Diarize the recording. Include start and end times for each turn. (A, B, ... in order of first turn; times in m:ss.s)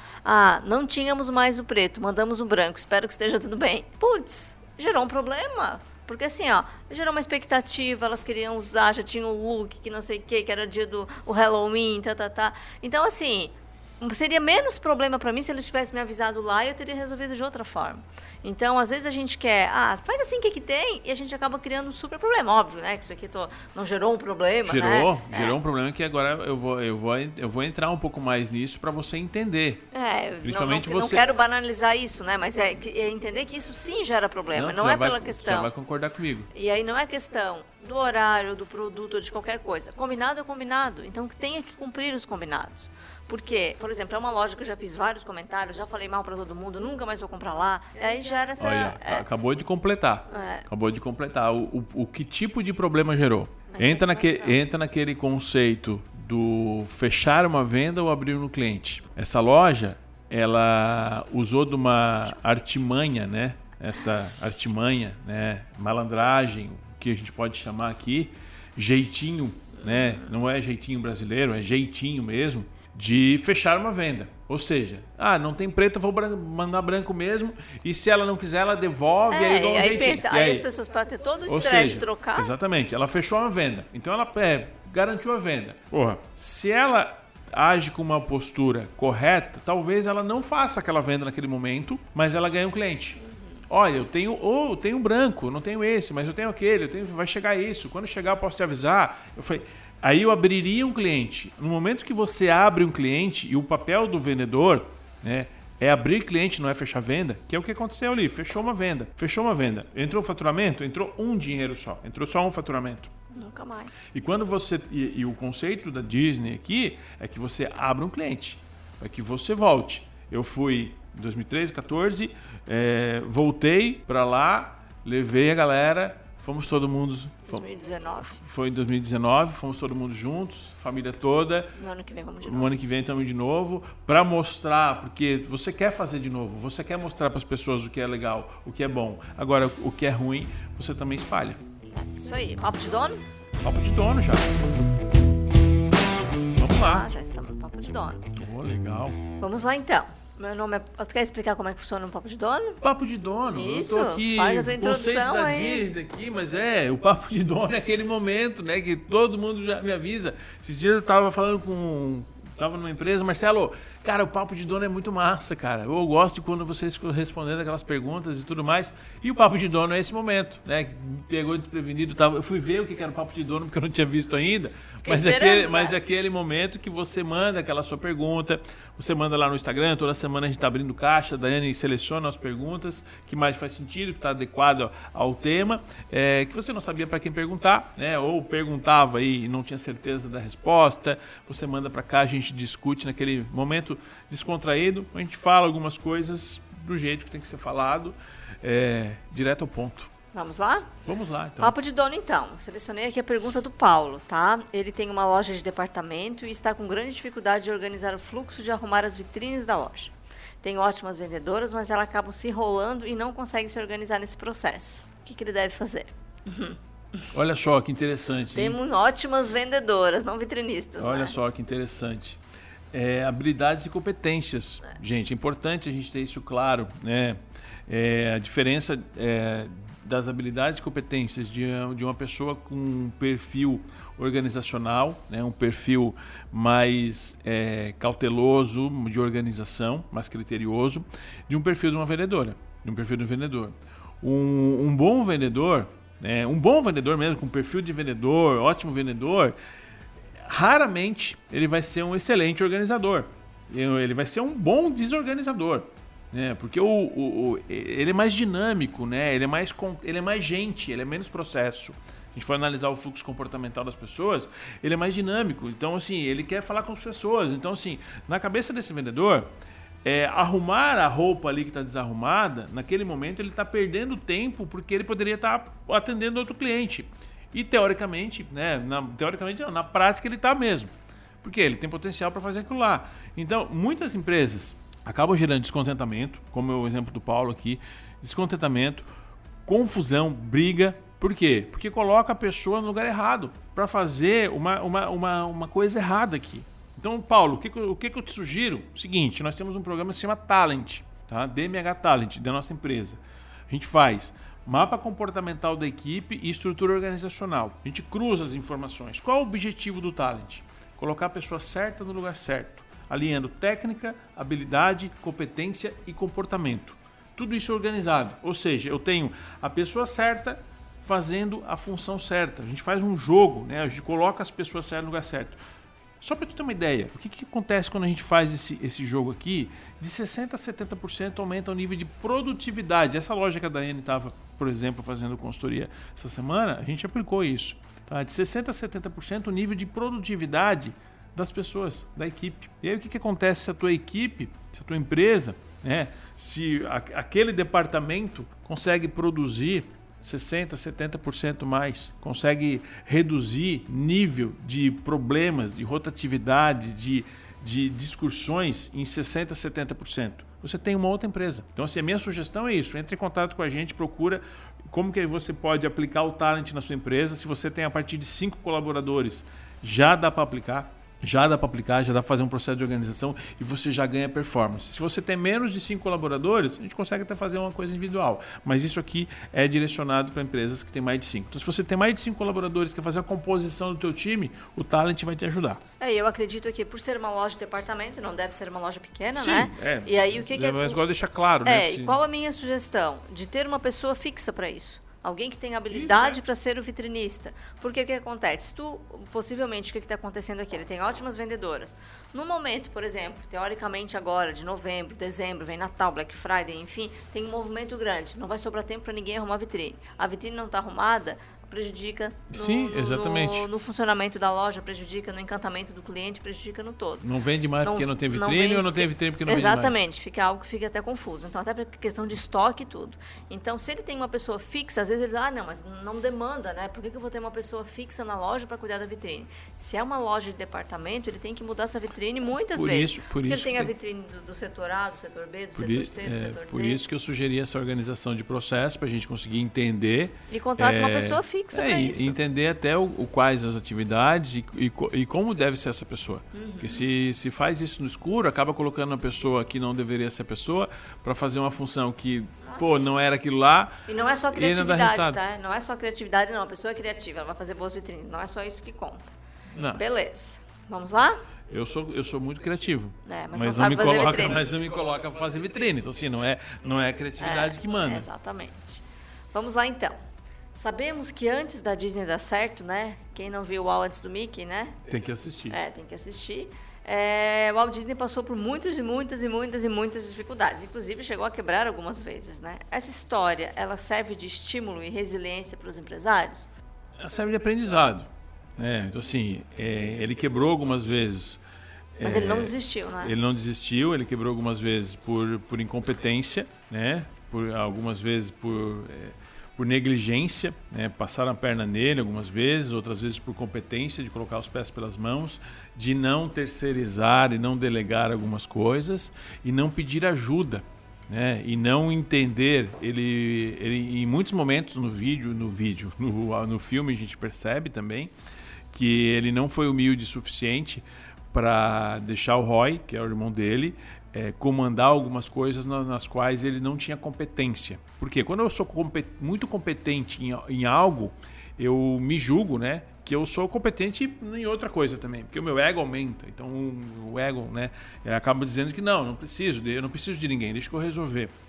0:00.2-0:25.6 A
0:24.6-0:29.8 B
0:29.9-0:35.7 A
0:30.4-0:31.3 B
0:34.5-0:36.5 B
0:36.5-0:49.2 A
0:48.6-1:20.6 B
0:50.3-0:50.6 A
0:53.7-0:54.6 A
1:09.8-1:10.2 A
1:19.3-1:22.5 A
1:21.5-1:53.1 B
1:53.3-1:54.0 A
1:54.1-2:07.7 B
2:07.5-2:08.4 A
2:08.2-2:11.7 B
2:11.8-2:12.7 A
2:12.4-2:21.6 B
2:21.9-2:23.2 A
2:23.6-2:24.6 B
2:26.5-2:27.1 B
2:26.8-2:28.3 A
2:28.3-2:29.2 B
2:29.4-2:32.8 A
2:32.8-3:20.1 B
2:33.5-2:35.9 A
2:55.0-2:56.0 A
3:20.3-3:20.9 A
3:21.0-3:21.7 B
3:21.6-3:37.3 A
3:37.3-3:38.8 B
3:38.5-3:41.4 A
3:41.0-3:42.4 B
3:42.9-4:09.6 B
4:10.4-4:29.5 B
4:30.0-4:49.1 B
4:49.6-5:25.6 B
5:26.2-6:25.8 B
6:26.0-6:31.0 A
6:29.3-6:32.2 B
6:31.6-6:57.3 A
6:35.9-6:36.4 B
6:52.5-6:53.7 B
6:57.2-7:00.0 B
6:57.8-7:17.0 A
7:12.7-7:13.9 B
7:15.7-7:35.4 B
7:20.5-7:22.4 A
7:26.5-7:27.0 A
7:32.7-7:33.0 A
7:34.1-7:41.4 A
7:39.7-7:40.0 B
7:41.7-7:48.3 B
7:43.2-7:44.6 A
7:47.4-7:50.2 A
7:50.7-7:55.0 A
7:55.1-7:55.8 B
7:55.7-8:06.7 A
8:07.2-8:11.6 B
8:12.2-8:38.3 B
8:12.2-8:13.3 A
8:38.9-9:01.5 B